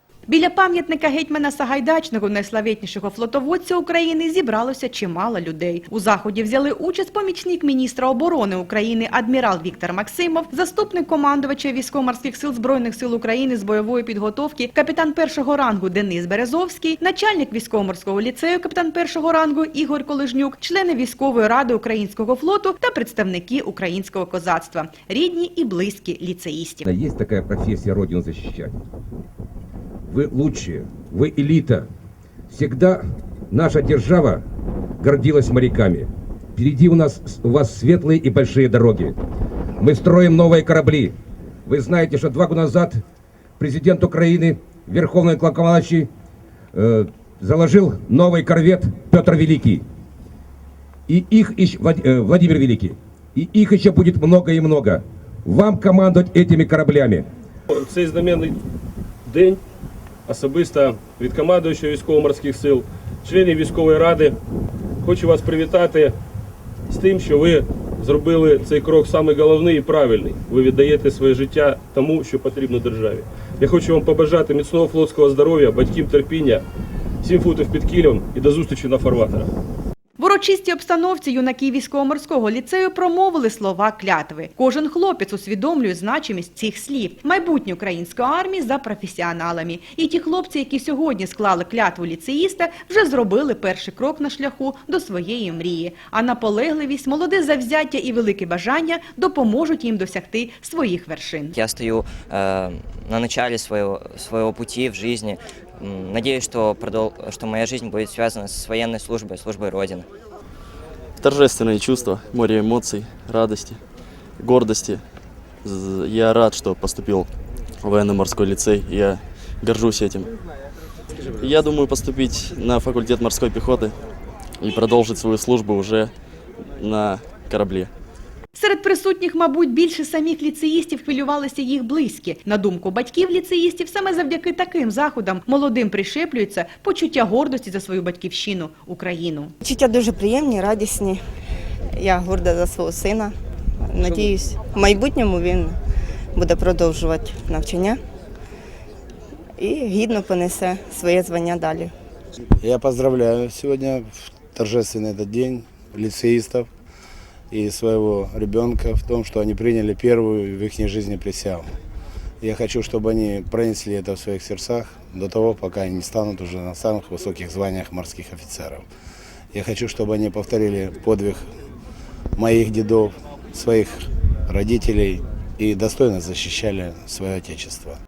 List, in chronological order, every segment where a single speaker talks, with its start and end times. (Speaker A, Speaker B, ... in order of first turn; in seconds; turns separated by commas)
Speaker A: 0.3-26.9, Speaker B: 26.9-28.8, Speaker B: 30.1-31.9, Speaker B: 32.5-34.4, Speaker B: 35.0-39.1, Speaker B: 39.8-41.1, Speaker B: 41.6-43.0, Speaker B: 43.6-46.1, Speaker B: 46.7-49.8, Speaker B: 51.1-57.2, Speaker C: 57.7-58.5, Speaker C: 59.2-59.6, Speaker C: 60.2-64.3, Speaker C: 65.0-66.1, Speaker C: 66.9-76.6, Speaker C: 77.2-79.5, Speaker A: 80.2-101.5, Speaker D: 101.5-110.1, Speaker E: 111.2-113.8, Speaker E: 114.4-115.0, Speaker E: 115.6-117.3, Speaker E: 117.8-120.3, Speaker E: 121.2-124.0, Speaker E: 124.6-126.1, Speaker E: 126.7-127.9, Speaker A: 128.5-139.5, Speaker F: 139.6-141.2, Speaker F: 141.9-145.8, Speaker F: 146.3-148.0, Speaker F: 149.6-151.9, Speaker G: 152.6-156.7, Speaker G: 157.5-161.7, Speaker G: 162.4-168.8, Speaker G: 169.5-171.5, Speaker G: 172.3-178.0